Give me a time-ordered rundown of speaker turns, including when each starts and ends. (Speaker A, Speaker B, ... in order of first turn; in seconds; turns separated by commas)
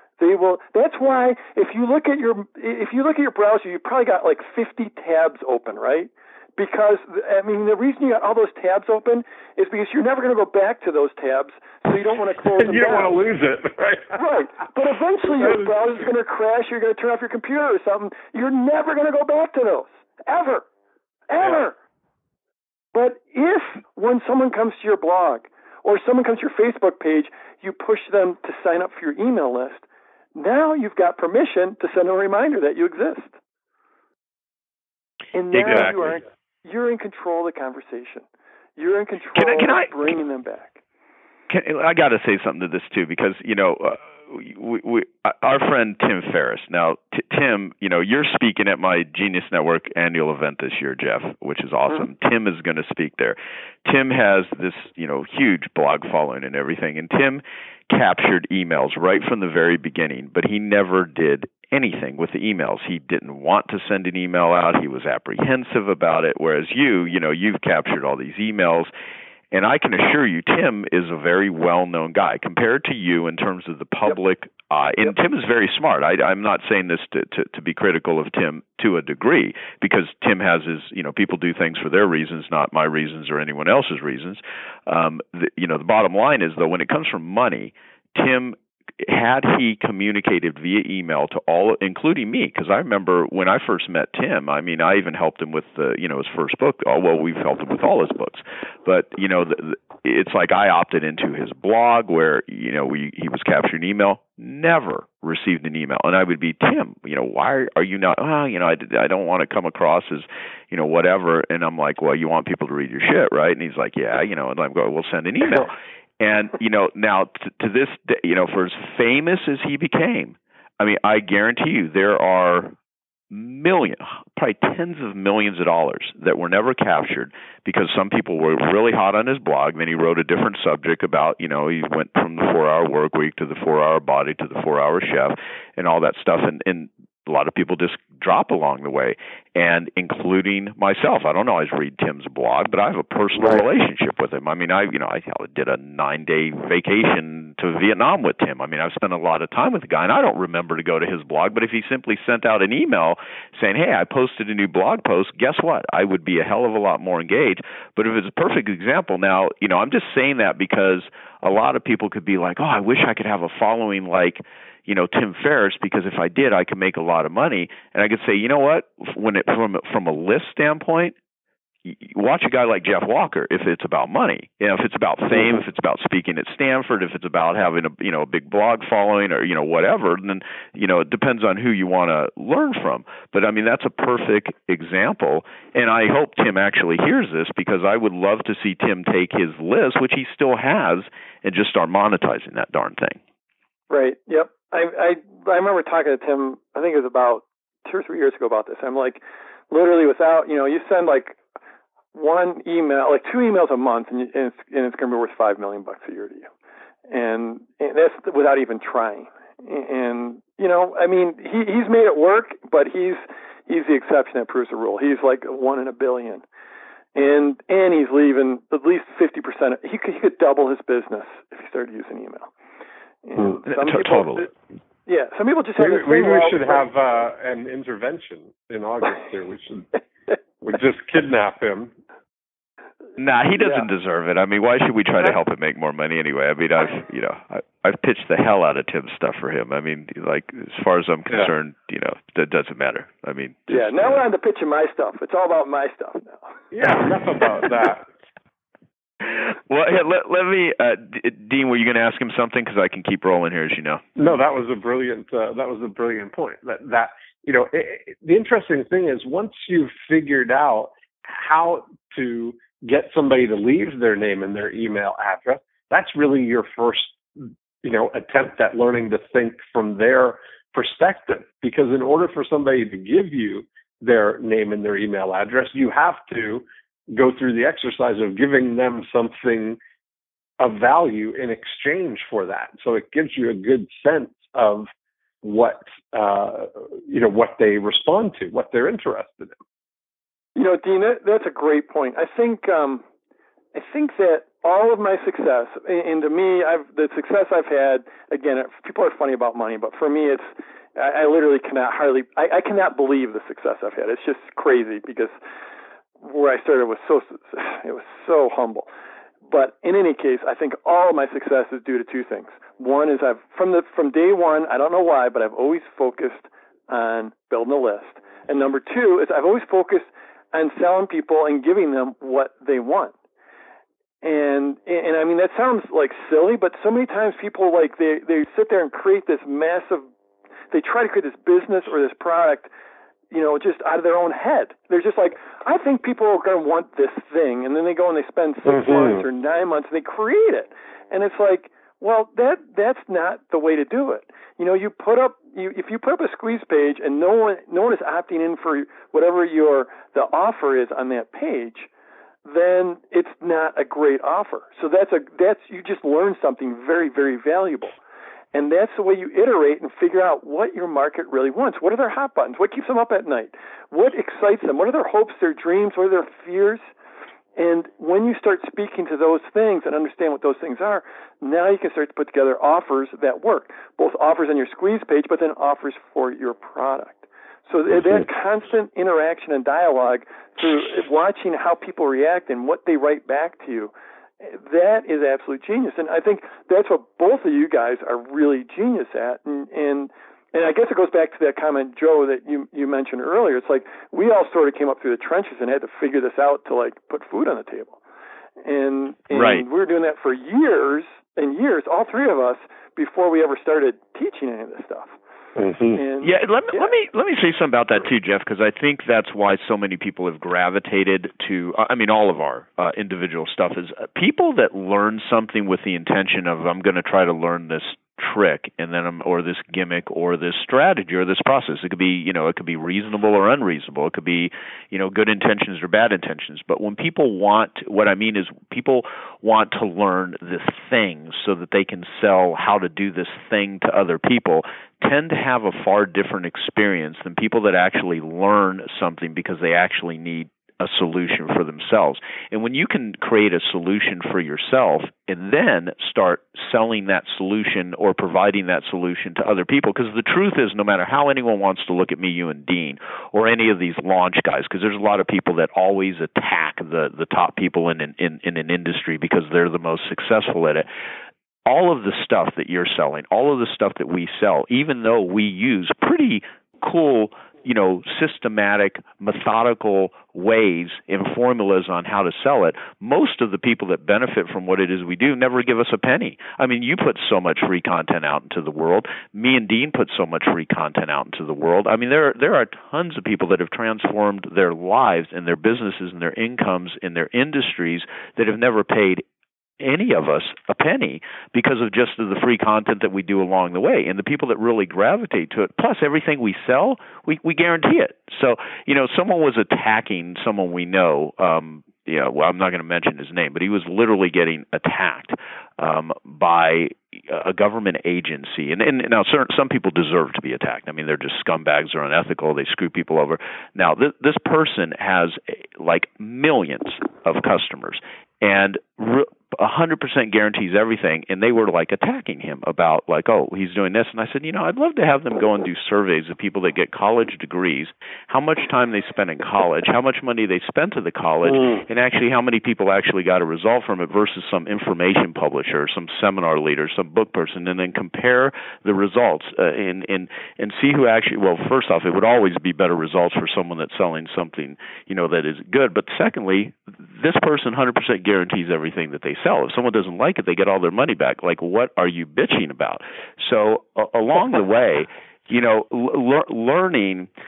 Speaker A: 0.2-13.2, Speaker B: 12.4-14.2, Speaker A: 14.1-20.6, Speaker B: 15.2-15.8, Speaker A: 21.3-21.8, Speaker A: 22.9-33.4, Speaker A: 35.3-38.2, Speaker C: 35.5-36.0, Speaker A: 38.8-40.8, Speaker C: 39.4-40.1, Speaker C: 41.5-68.9, Speaker C: 69.5-122.7, Speaker C: 123.3-171.2, Speaker C: 171.8-193.2, Speaker A: 193.9-201.4, Speaker A: 202.1-206.5, Speaker A: 207.1-216.4, Speaker A: 217.2-222.5, Speaker A: 223.2-224.5, Speaker C: 223.7-224.5, Speaker A: 225.1-226.8, Speaker B: 225.8-229.9, Speaker B: 230.6-231.9, Speaker C: 233.2-244.2, Speaker A: 243.7-246.5, Speaker B: 246.7-248.1, Speaker C: 249.2-254.0, Speaker B: 254.2-279.8, Speaker B: 280.6-284.9, Speaker B: 285.4-289.5, Speaker A: 290.6-293.0, Speaker A: 293.7-305.4, Speaker A: 306.2-308.9, Speaker A: 309.5-323.1, Speaker A: 324.2-330.1, Speaker A: 330.7-332.7, Speaker A: 333.3-351.9, Speaker B: 338.7-339.2, Speaker A: 352.4-357.9, Speaker A: 358.5-366.9, Speaker A: 367.6-398.0, Speaker A: 398.6-405.1, Speaker C: 399.3-399.7, Speaker B: 405.6-406.0, Speaker A: 405.9-406.9, Speaker C: 406.2-460.9, Speaker C: 461.7-489.2, Speaker C: 489.8-557.3